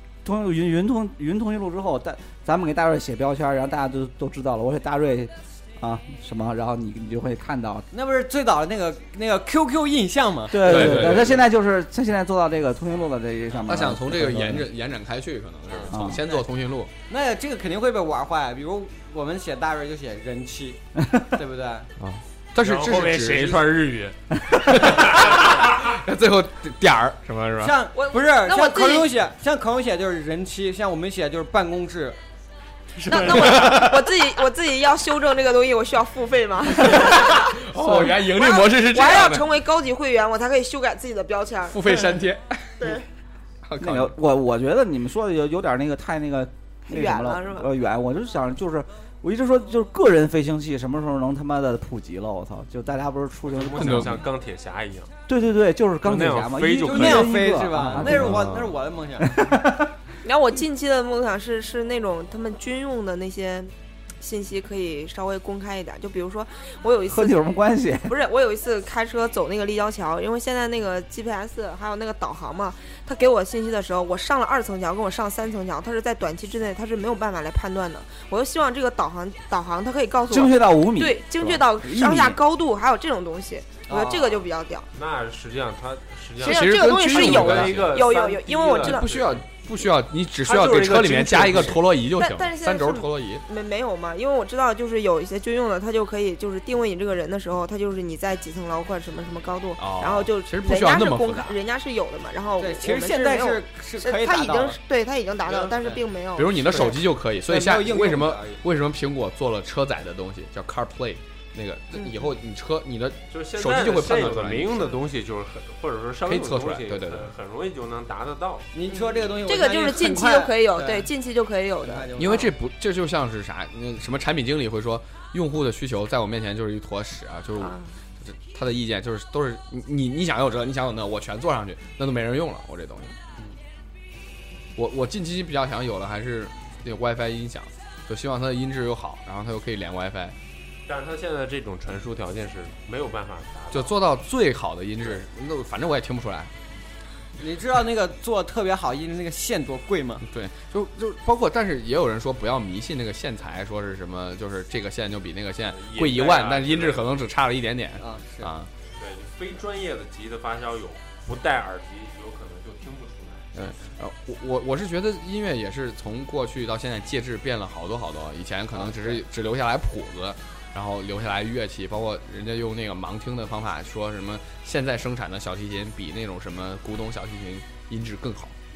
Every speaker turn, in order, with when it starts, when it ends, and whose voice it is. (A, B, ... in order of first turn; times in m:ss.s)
0:00.2-0:07.9 A
0:07.9-0:11.4 B
0:10.5-0:14.6 A
0:10.6-0:11.4 C
0:13.6-0:16.9 C
0:15.7-0:16.4 B
0:15.9-0:16.2 A
0:17.1-0:21.9 B
0:22.0-0:23.6 C
0:22.6-0:24.2 D
0:24.6-0:27.8 C
0:24.8-0:25.4 D
0:27.6-0:32.2 B
0:27.9-0:29.1 E
0:33.0-0:42.0 E
0:33.1-0:34.1 C
0:36.8-0:39.5 C
0:41.7-0:43.0 C
0:42.8-0:43.0 E
0:43.7-0:44.2 C
0:43.8-0:54.2 A
0:46.9-0:47.7 E
0:53.5-0:55.1 D
0:53.8-0:54.2 C
0:55.3-0:58.5 A
0:56.0-0:57.4 D
0:56.9-0:59.3 B
0:58.0-0:58.8 C
0:59.2-0:59.9 A
1:00.2-1:07.4 E
1:07.1-1:08.1 A
1:08.0-1:24.9 E
1:20.3-1:22.4 A
1:23.9-1:24.5 B
1:24.9-1:29.4 D
1:26.4-1:29.1 E
1:26.4-1:28.1 C
1:28.8-1:33.4 C
1:30.4-1:31.9 D
1:32.2-1:47.0 E
1:39.8-1:41.6 C
1:42.6-1:44.8 B
1:45.5-1:46.0 B
1:46.4-1:54.8 C
1:46.7-1:48.6 B
1:53.3-1:58.7 D
1:56.3-1:57.3 C
1:58.7-2:01.1 B
1:59.4-2:02.5 E
2:01.8-2:02.5 B
2:02.2-2:13.2 C
2:07.6-2:07.9 E
2:14.8-2:20.4 C
2:20.9-2:23.9 D
2:23.7-2:26.5 C
2:27.4-2:30.2 B
2:30.2-2:38.7 C
2:35.7-2:37.1 D
2:38.0-2:38.5 B
2:39.0-2:43.7 D
2:43.6-2:58.6 C
2:48.8-2:49.2 D